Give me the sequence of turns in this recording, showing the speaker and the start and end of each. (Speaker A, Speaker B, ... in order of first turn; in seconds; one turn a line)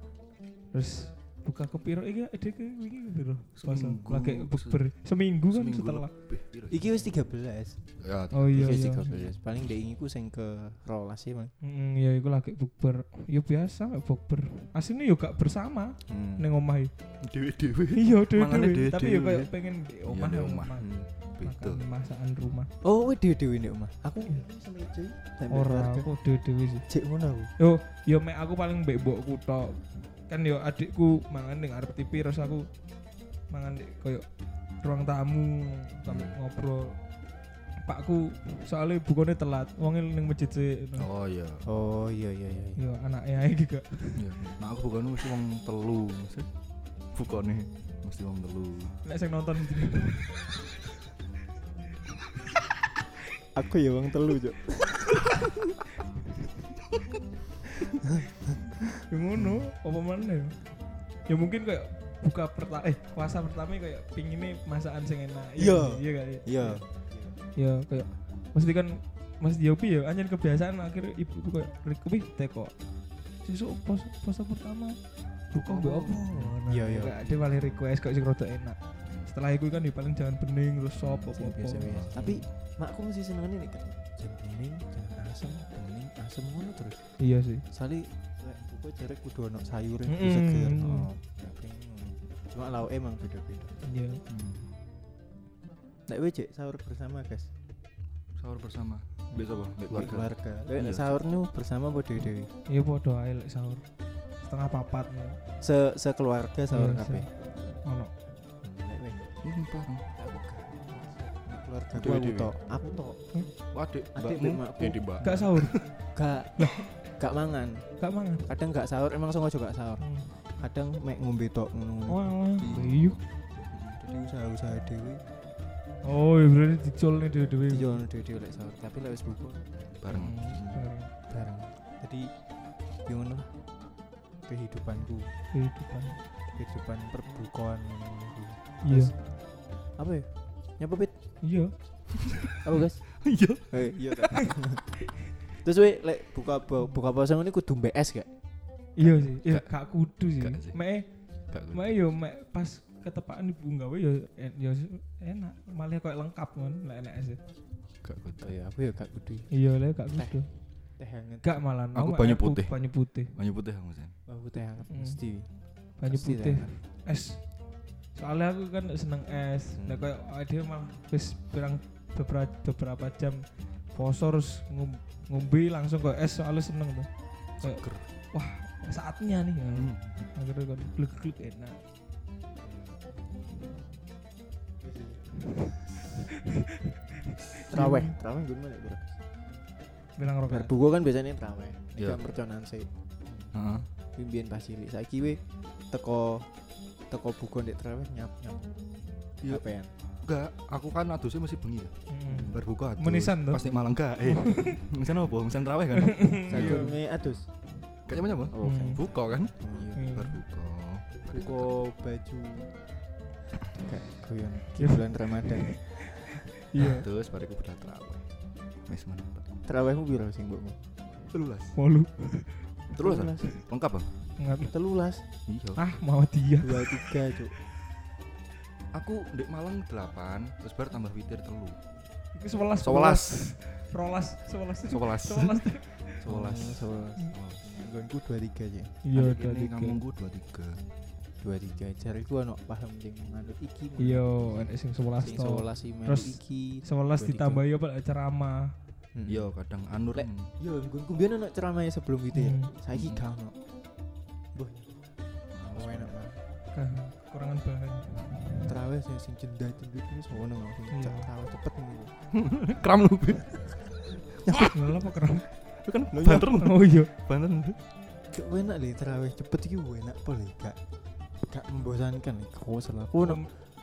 Speaker A: 0.7-6.1
Speaker B: 3.6-4.9
Speaker B: 5.4-7.1
Speaker C: 6.7-7.9
Speaker B: 8.0-9.3
Speaker A: 8.3-9.1
Speaker C: 8.5-11.5
Speaker A: 11.6-16.9
Speaker B: 16.1-16.4
Speaker B: 17.2-19.5
Speaker A: 17.9-20.9
Speaker B: 20.1-21.8
Speaker A: 21.4-22.7
Speaker C: 22.8-26.1
Speaker A: 25.5-26.9
Speaker C: 26.9-27.5
Speaker A: 27.6-32.7
Speaker A: 33.5-34.2
Speaker A: 34.8-37.0
Speaker B: 36.0-36.4
Speaker A: 37.8-41.1
Speaker B: 41.0-41.6
Speaker C: 41.6-42.8
Speaker A: 42.8-44.2
Speaker B: 44.1-46.5
Speaker B: 47.1-49.0
Speaker A: 49.0-50.5
Speaker C: 53.5-55.5
Speaker A: 59.0-66.8
Speaker C: 65.6-67.4
Speaker A: 67.5-72.7
Speaker A: 73.4-82.3
Speaker B: 75.5-76.5
Speaker C: 76.7-77.3
Speaker B: 79.1-79.3
Speaker C: 81.3-93.8
Speaker B: 81.9-82.5
Speaker A: 87.2-87.6
Speaker A: 90.1-91.1
Speaker A: 93.8-94.2
Speaker B: 94.3-94.8
Speaker C: 96.1-97.5
Speaker B: 98.4-101.1
Speaker C: 99.3-102.5
Speaker A: 102.7-105.4
Speaker C: 105.6-107.3
Speaker A: 106.7-108.1
Speaker C: 108.6-109.4
Speaker B: 109.4-110.1
Speaker C: 110.1-113.4
Speaker B: 111.9-112.5
Speaker B: 113.7-115.9
Speaker C: 114.1-115.5
Speaker A: 115.2-116.0
Speaker C: 116.1-117.9
Speaker A: 116.6-116.8
Speaker A: 118.0-118.5
Speaker C: 118.5-122.8
Speaker A: 120.0-120.3
Speaker A: 122.1-123.2
Speaker B: 122.6-123.2
Speaker C: 123.7-125.2
Speaker A: 126.0-128.0
Speaker C: 127.7-129.7
Speaker B: 130.0-130.6
Speaker A: 130.1-131.1
Speaker C: 130.4-132.4
Speaker C: 132.9-133.6
Speaker C: 134.4-135.3
Speaker A: 135.5-136.2
Speaker C: 136.5-141.1
Speaker A: 138.8-139.1
Speaker A: 141.4-142.2
Speaker C: 142.6-144.8
Speaker B: 143.2-144.0
Speaker C: 145.6-148.3
Speaker A: 149.0-157.4
Speaker B: 149.2-150.8
Speaker B: 151.5-151.9
Speaker B: 158.0-158.5
Speaker C: 158.4-159.6
Speaker A: 159.5-160.5
Speaker C: 160.1-160.4
Speaker C: 161.0-161.6
Speaker A: 161.4-163.3
Speaker B: 161.9-164.1
Speaker C: 164.3-166.7
Speaker A: 164.9-165.2
Speaker A: 166.0-167.6
Speaker A: 168.1-181.8
Speaker B: 177.6-178.1
Speaker B: 179.7-180.3
Speaker C: 182.6-183.0
Speaker C: 184.8-185.3
Speaker A: 187.5-188.1
Speaker C: 187.7-189.2
Speaker A: 190.2-190.7
Speaker C: 190.5-193.4
Speaker B: 192.0-192.2
Speaker B: 193.5-193.9
Speaker C: 194.1-196.5
Speaker C: 197.1-198.8
Speaker B: 199.4-199.7
Speaker C: 199.4-199.9
Speaker B: 200.2-207.0
Speaker A: 202.1-203.6
Speaker A: 204.2-204.8
Speaker A: 206.0-206.9
Speaker C: 206.5-207.5
Speaker B: 208.1-211.9
Speaker C: 208.5-210.0
Speaker A: 208.6-209.0
Speaker A: 209.9-210.4
Speaker C: 211.3-212.8
Speaker C: 213.7-216.1
Speaker A: 214.8-215.8
Speaker A: 216.6-217.1
Speaker B: 216.8-218.3
Speaker B: 218.9-219.5
Speaker C: 219.6-220.8
Speaker B: 221.3-221.8
Speaker A: 221.8-222.7
Speaker C: 223.0-223.5
Speaker B: 223.0-224.1
Speaker A: 224.4-224.7
Speaker C: 224.7-225.2
Speaker B: 225.5-225.8
Speaker A: 225.8-227.1
Speaker C: 226.6-227.5
Speaker B: 228.9-231.8
Speaker A: 232.3-236.2
Speaker B: 232.8-233.6
Speaker B: 234.9-237.7
Speaker C: 236.2-239.0
Speaker A: 239.0-240.0
Speaker B: 239.1-240.8
Speaker C: 241.4-247.6
Speaker A: 244.0-248.7
Speaker C: 249.1-249.5
Speaker B: 249.2-250.5
Speaker C: 250.1-253.6
Speaker A: 252.3-252.7
Speaker B: 252.9-253.2
Speaker C: 254.5-255.0
Speaker B: 255.5-256.1
Speaker C: 255.7-256.4
Speaker A: 256.7-258.7
Speaker C: 258.6-262.1
Speaker A: 260.9-261.3
Speaker B: 262.3-263.9
Speaker C: 264.4-264.8
Speaker B: 264.5-264.7
Speaker A: 264.7-265.5
Speaker B: 265.8-267.8
Speaker C: 266.1-266.5
Speaker A: 266.3-267.1
Speaker C: 268.3-270.8
Speaker C: 271.4-273.4
Speaker A: 273.2-273.5